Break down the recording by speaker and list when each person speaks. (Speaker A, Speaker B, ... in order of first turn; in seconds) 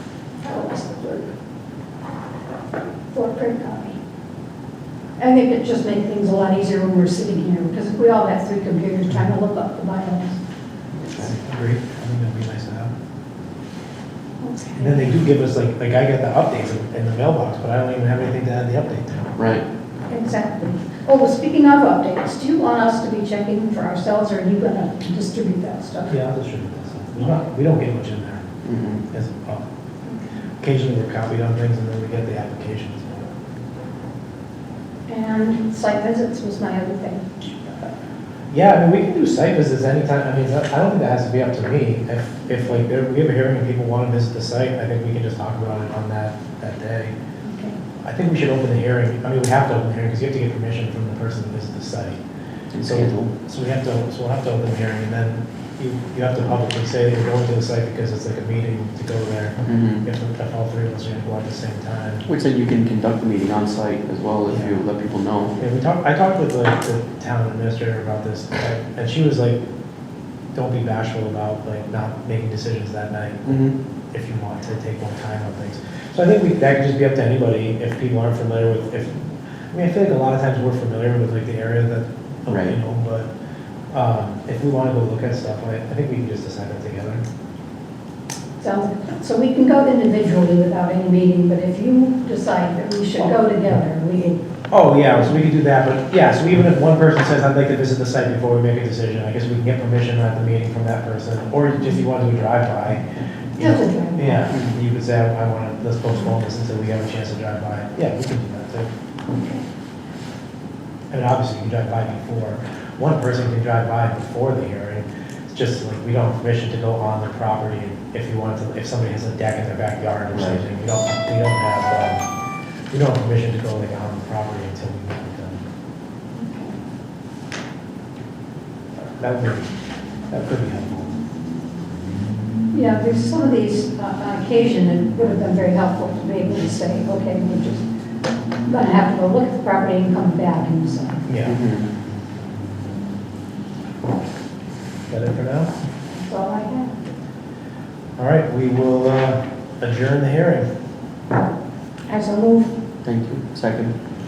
Speaker A: 0.4-1.3, 3.1-4.0, 5.2-10.4, 14.4-15.1, 20.1-26.1, 35.1-37.9, 47.5-47.8, 88.6-94.4, 103.6-104.5, 109.3-109.7, 126.4-126.8, 132.7-137.9, 138.7-141.2, 146.1-147.0, 152.1-152.8
Speaker B: 11.0-11.3, 19.4-19.6, 28.6-29.0, 52.7-53.2, 59.7-60.0, 62.3-65.6, 73.5-73.7, 82.5-82.8, 104.5-104.8, 120.3-120.6, 141.4-141.9, 153.1-153.9
Speaker C: 11.2-12.9, 14.8-19.3, 26.1-28.5, 29.1-29.6, 30.6-33.3, 38.5-47.1, 48.0-52.2, 52.8-62.3, 65.6-69.6, 70.5-73.6, 74.1-83.3, 83.9-87.2, 94.7-103.0, 103.5-108.9, 111.1-122.3, 122.9-125.6, 129.2-129.7, 130.3-131.2, 141.2-141.6, 145.1-145.7, 148.2-150.7